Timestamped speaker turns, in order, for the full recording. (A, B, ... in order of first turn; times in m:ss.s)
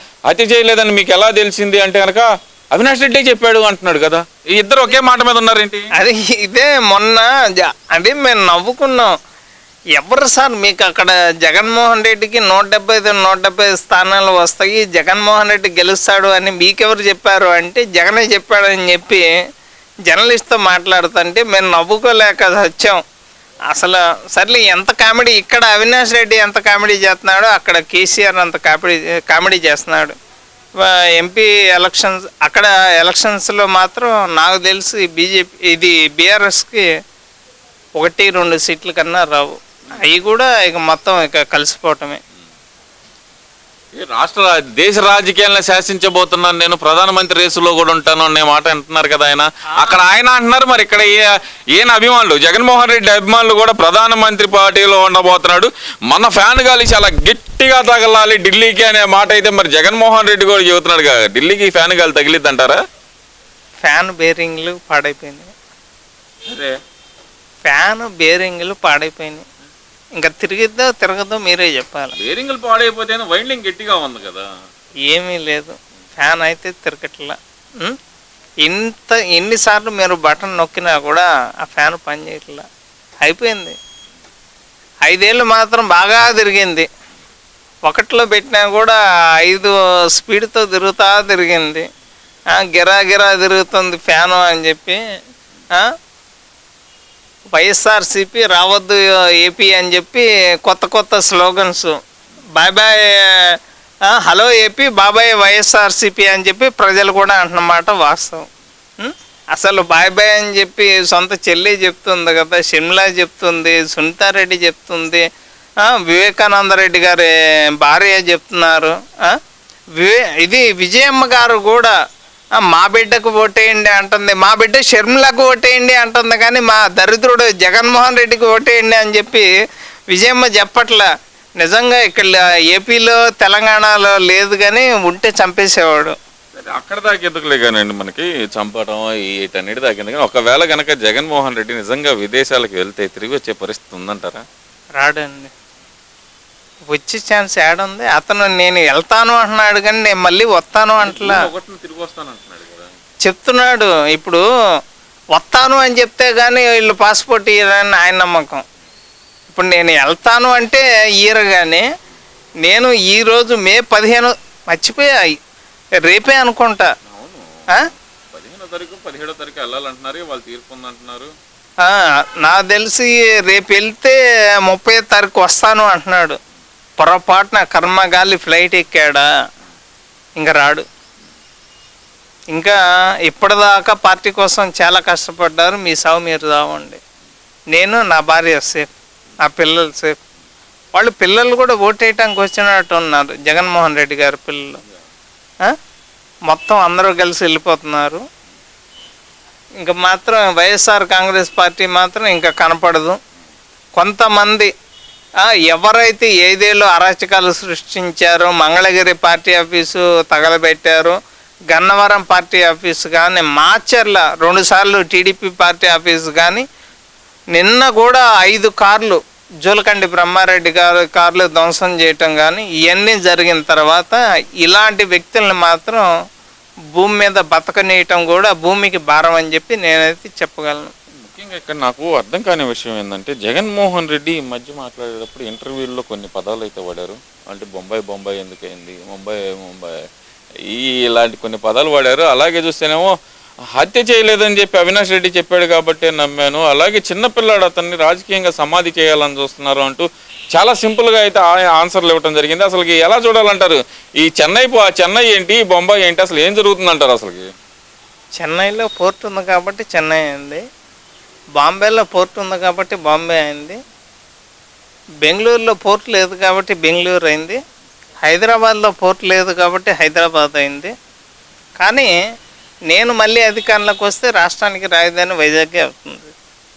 0:00.3-0:05.9 A
0:05.9-0:09.1 B
0:10.0-0:19.2 B
0:20.1-0:23.0 B
0:23.7-0:30.2 B
0:30.8-0:36.9 B
0:38.0-0:42.2 B
0:44.0-1:02.8 A
1:03.8-1:05.5 B
1:06.5-1:06.8 A
1:07.7-1:09.4 B
1:10.2-1:12.2 B
1:12.2-1:14.5 A
1:15.1-1:18.0 B
1:18.6-1:22.6 B
1:23.2-1:23.8 B
1:25.0-1:26.9 B
1:27.8-1:31.8 B
1:32.5-1:35.0 B
1:37.5-1:42.0 B
1:42.6-1:43.6 B
1:44.1-1:48.4 B
1:49.0-1:55.2 B
1:55.8-1:59.4 B
2:00.0-2:01.9 B
2:02.6-2:09.5 B
2:10.1-2:11.1 B
2:11.6-2:16.2 B
2:16.5-2:24.4 A
2:25.0-2:25.5 B
2:26.9-2:31.5 B
2:31.0-2:32.9 A
2:33.2-2:34.4 B
2:35.3-2:38.6 B
2:39.5-2:41.8 B
2:42.6-2:45.3 B
2:46.0-2:46.9 B
2:47.0-2:51.3 A
2:51.8-2:56.4 B
2:57.0-2:59.3 B
3:00.4-3:00.8 B
3:02.5-3:07.0 B
3:07.7-3:08.9 B
3:09.4-3:10.2 B
3:10.9-3:14.8 B
3:16.5-3:18.2 B
3:19.8-3:23.2 B
3:24.0-3:24.7 B
3:25.4-3:31.2 B
3:31.7-3:36.6 B
3:37.5-3:46.1 B
3:47.0-3:50.9 B
3:51.2-4:00.0 A
4:00.6-4:03.1 A
4:03.7-4:17.5 A
4:18.4-4:20.6 B
4:21.6-4:23.8 B
4:25.2-4:27.6 B
4:28.2-4:30.9 B
4:31.8-4:32.1 B
4:32.9-4:36.3 B